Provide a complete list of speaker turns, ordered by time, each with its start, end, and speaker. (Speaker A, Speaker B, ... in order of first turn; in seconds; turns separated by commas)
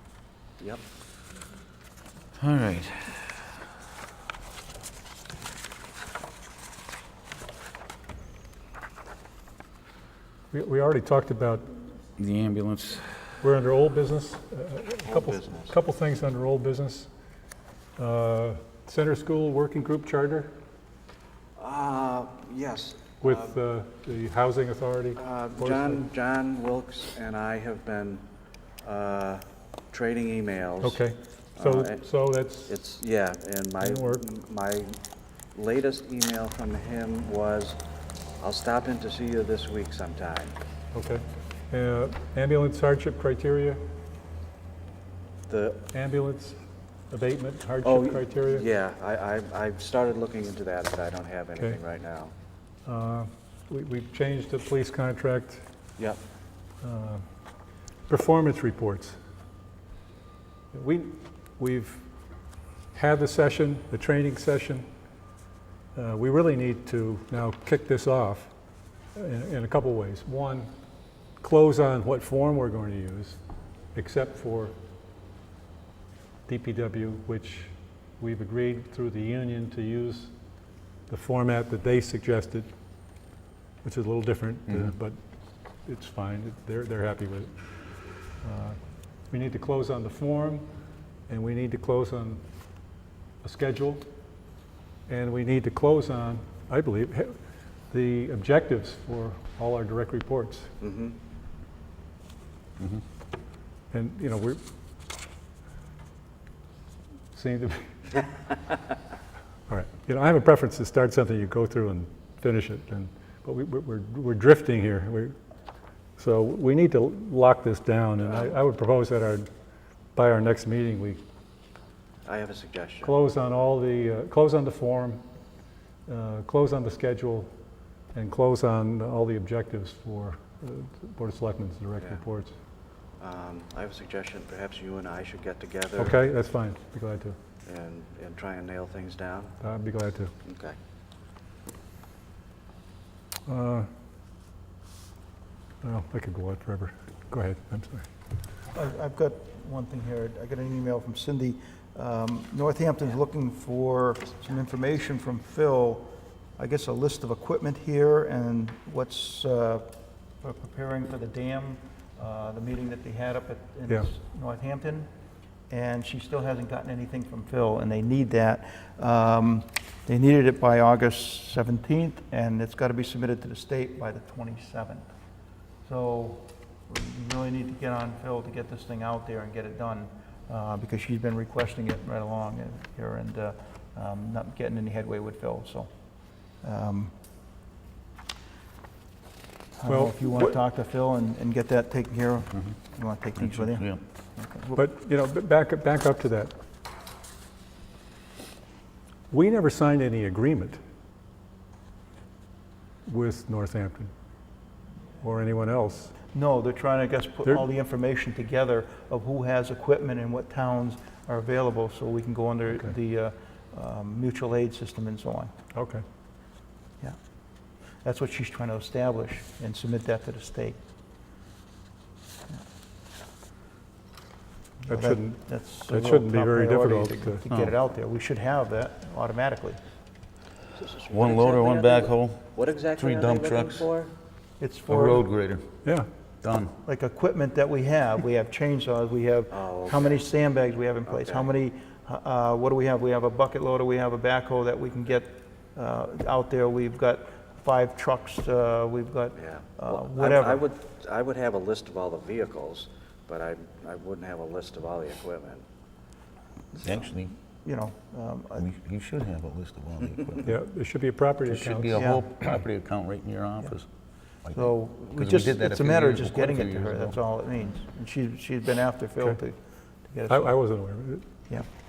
Speaker A: 2.4-3.5, Speaker B: 10.5-11.8, Speaker A: 12.2-13.2, Speaker B: 13.4-17.1, Speaker C: 15.0-15.7, Speaker B: 18.0-20.5, Speaker C: 21.6-23.5, Speaker B: 23.2-26.1, Speaker C: 25.1-28.2, Speaker C: 28.8-31.0, Speaker B: 30.8-32.8, Speaker C: 31.6-32.1, Speaker C: 32.7-35.0, Speaker B: 33.8-34.2, Speaker C: 35.5-37.8, Speaker C: 38.4-40.5, Speaker B: 40.9-43.8, Speaker C: 45.5-45.8, Speaker B: 45.9-48.7, Speaker C: 47.8-52.3, Speaker B: 52.9-55.6, Speaker B: 56.8-57.2, Speaker B: 58.1-59.2, Speaker B: 60.7-62.0, Speaker B: 62.9-64.9, Speaker B: 65.9-68.5, Speaker B: 69.1-70.7, Speaker B: 71.4-73.4, Speaker B: 73.9-74.8, Speaker B: 76.5-80.3, Speaker B: 81.1-82.7, Speaker B: 83.8-85.2, Speaker B: 85.8-87.5, Speaker B: 88.4-88.8, Speaker B: 89.3-90.7, Speaker B: 91.3-92.4, Speaker B: 93.4-94.0, Speaker B: 95.1-97.3, Speaker B: 97.9-100.7, Speaker C: 100.8-101.2, Speaker B: 103.9-104.6, Speaker B: 107.3-108.3, Speaker B: 109.7-115.3, Speaker B: 116.2-119.5, Speaker C: 118.2-118.5, Speaker B: 120.1-121.2, Speaker C: 122.2-123.2, Speaker B: 123.0-125.2, Speaker B: 126.1-127.5, Speaker B: 128.1-132.5, Speaker C: 133.2-136.2, Speaker B: 136.0-137.3, Speaker C: 137.7-139.6, Speaker B: 139.6-140.3, Speaker C: 140.4-140.8, Speaker B: 143.4-143.9, Speaker B: 145.8-148.1, Speaker D: 148.7-159.9, Speaker D: 160.4-165.1, Speaker D: 165.7-175.0, Speaker D: 175.8-185.9, Speaker D: 186.6-187.1, Speaker D: 189.8-194.8, Speaker B: 189.8-190.6, Speaker A: 193.4-194.0, Speaker B: 194.7-196.5, Speaker B: 199.3-200.8, Speaker B: 203.1-204.1, Speaker B: 205.2-206.1, Speaker D: 206.3-215.5, Speaker B: 215.7-216.0, Speaker D: 218.0-220.8, Speaker D: 224.8-229.8, Speaker B: 224.9-227.4, Speaker A: 227.5-227.7, Speaker C: 230.7-234.1, Speaker A: 231.1-233.9, Speaker D: 234.6-235.2, Speaker A: 234.9-235.6, Speaker A: 236.4-236.8, Speaker D: 236.8-250.7, Speaker C: 239.5-240.2, Speaker C: 241.1-241.5, Speaker C: 249.3-255.6, Speaker A: 256.8-257.3, Speaker D: 257.6-258.7, Speaker A: 258.6-260.5, Speaker B: 260.4-262.0, Speaker A: 261.4-263.9, Speaker D: 261.9-262.2, Speaker A: 264.4-267.1, Speaker D: 264.5-270.5, Speaker B: 270.3-271.2